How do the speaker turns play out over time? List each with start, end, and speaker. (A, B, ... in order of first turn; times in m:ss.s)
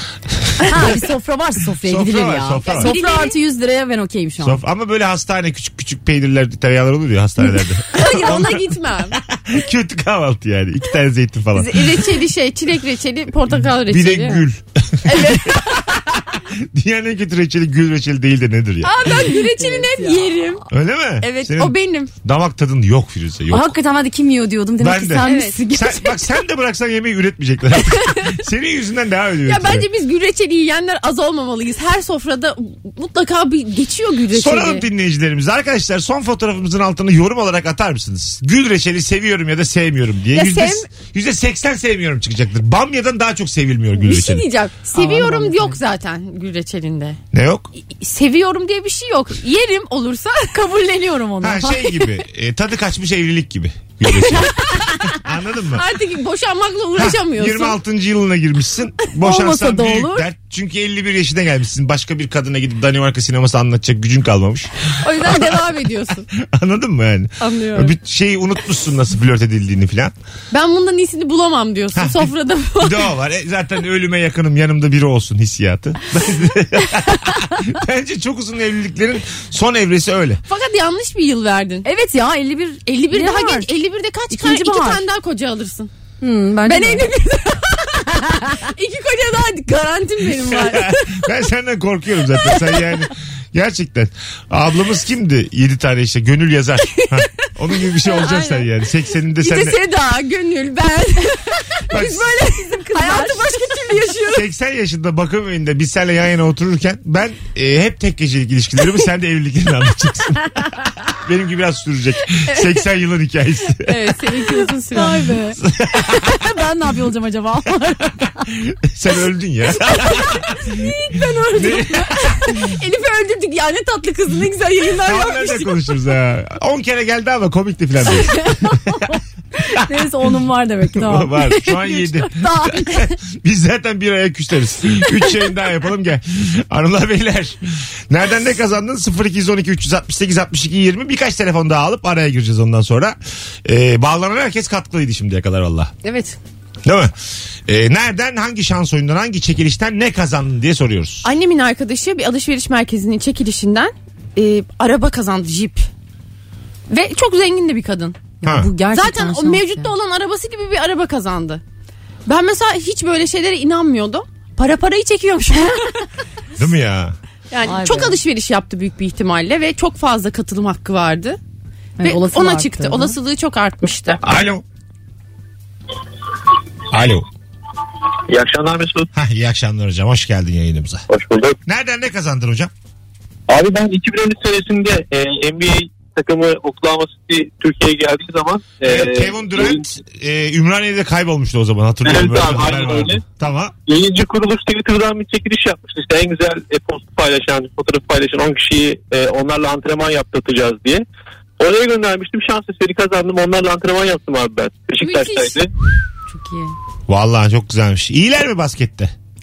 0:00.3-0:01.0 A
0:00.6-0:04.6 B
0:01.8-0:02.9 A
0:02.7-0:03.4 C
0:04.4-0:12.1 A
0:07.9-0:09.2 C
0:08.0-0:08.3 B
0:11.5-0:14.4 C
0:13.5-0:19.0 A
0:15.0-0:15.8 C
0:18.8-0:20.6 C
0:19.0-0:20.4 B
0:20.7-0:23.7 A
0:21.2-0:22.1 C
0:23.5-0:26.2 B
0:24.8-0:29.8 A
0:25.2-0:25.6 C
0:29.4-0:34.9 C
0:34.3-0:44.4 A
0:40.3-0:40.9 C
0:44.0-0:47.2 C
0:44.9-0:45.8 B
0:47.3-0:47.7 A
0:47.8-0:50.6 C
0:50.5-0:52.1 B
0:51.4-0:55.9 A
0:54.6-0:55.1 C
0:55.7-0:57.8 C
0:57.0-1:05.6 A
0:59.2-1:00.3 B
1:05.0-1:06.3 C
1:06.4-1:10.1 A
1:07.4-1:07.9 C
1:10.5-1:13.1 C
1:11.9-1:20.4 A
1:20.5-1:21.8 C
1:21.8-1:23.7 B
1:22.8-1:25.9 C
1:24.3-1:25.0 B
1:26.2-1:27.1 B
1:26.6-1:31.2 C
1:28.3-1:28.6 B
1:30.4-1:39.8 A
1:37.9-1:38.6 C
1:39.3-1:44.4 C
1:41.9-1:42.3 A
1:41.9-1:44.1 B
1:44.3-1:54.1 A
1:53.8-1:55.3 C
1:54.5-1:58.5 B
1:55.6-1:56.5 A
1:58.7-2:00.8 A
2:00.6-2:01.9 C
2:00.7-2:02.5 B
2:01.5-2:02.7 A
2:02.5-2:05.9 C
2:05.0-2:09.0 A
2:08.2-2:13.1 B
2:10.9-2:25.9 A
2:26.0-2:26.4 C
2:26.8-2:27.1 A
2:27.7-2:31.3 A
2:31.2-2:35.9 C
2:36.9-2:38.2 C
2:38.4-2:39.9 B
2:38.4-2:38.7 A
2:38.9-2:41.6 C
2:42.2-2:46.0 C
2:46.6-2:47.2 A
2:47.5-2:51.4 C
2:47.6-2:48.2 B
2:52.0-2:53.2 B
2:52.0-2:54.2 C
2:54.2-2:54.6 A
2:56.9-2:57.3 A
2:58.3-2:59.1 D
2:59.1-3:01.0 A
3:01.1-3:01.6 D
3:01.6-3:02.7 A
3:03.5-3:09.8 D
3:08.8-3:13.7 A
3:12.0-3:13.2 D
3:13.9-3:21.0 D
3:21.6-3:25.7 D
3:25.0-3:25.6 C
3:26.3-3:26.7 B
3:27.1-3:29.1 A